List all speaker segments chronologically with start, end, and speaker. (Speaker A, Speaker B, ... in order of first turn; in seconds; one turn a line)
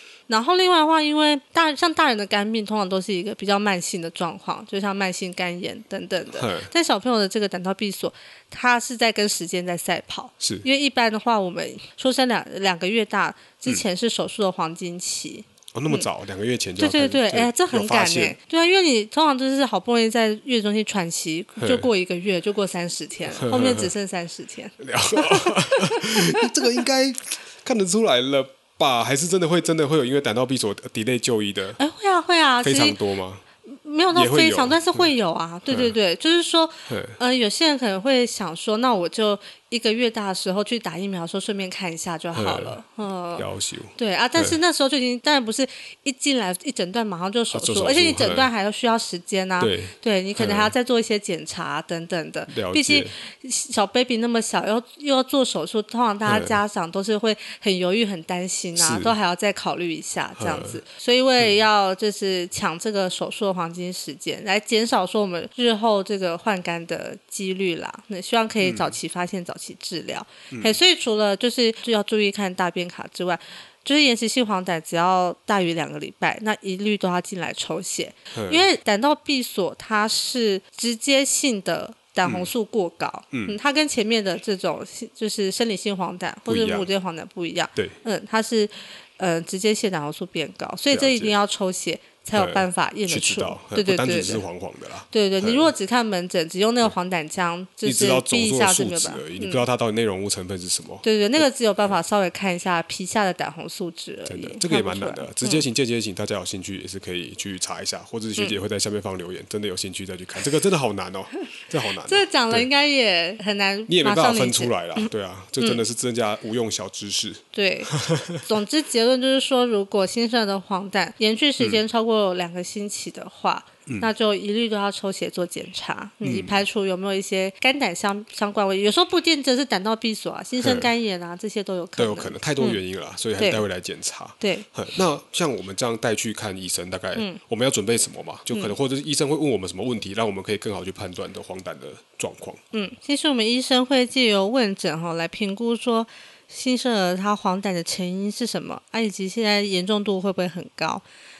Speaker A: 0.3-16.1
Speaker B: 6.3-6.7
Speaker B: 10.4-10.7
Speaker B: 15.7-18.3
Speaker A: 16.8-26.8
Speaker B: 21.6-21.9
Speaker B: 23.3-23.9
Speaker B: 24.8-31.8
Speaker A: 31.8-33.0
Speaker B: 32.6-33.4
Speaker A: 33.6-94.4
Speaker B: 34.1-35.1
Speaker B: 35.7-35.9
Speaker B: 36.9-37.2
Speaker B: 42.3-42.8
Speaker B: 43.4-44.6
Speaker B: 47.5-48.5
Speaker B: 49.6-50.7
Speaker B: 52.5-53.1
Speaker B: 56.2-56.6
Speaker B: 58.8-59.1
Speaker B: 60.4-60.8
Speaker B: 68.6-69.0
Speaker B: 70.5-70.8
Speaker B: 78.3-78.7
Speaker B: 82.2-82.5
Speaker B: 83.3-83.6
Speaker B: 86.5-86.9
Speaker B: 90.9-91.3
Speaker B: 92.3-95.7
Speaker A: 95.1-99.6
Speaker B: 97.8-101.9
Speaker A: 101.0-105.6
Speaker B: 104.3-112.7
Speaker A: 112.0-115.1
Speaker B: 113.9-118.4
Speaker A: 117.5-132.8
Speaker B: 126.2-126.6
Speaker B: 130.6-130.9
Speaker B: 132.0-142.6
Speaker A: 133.4-133.6
Speaker A: 134.4-134.7
Speaker A: 138.5-138.7
Speaker A: 142.7-151.0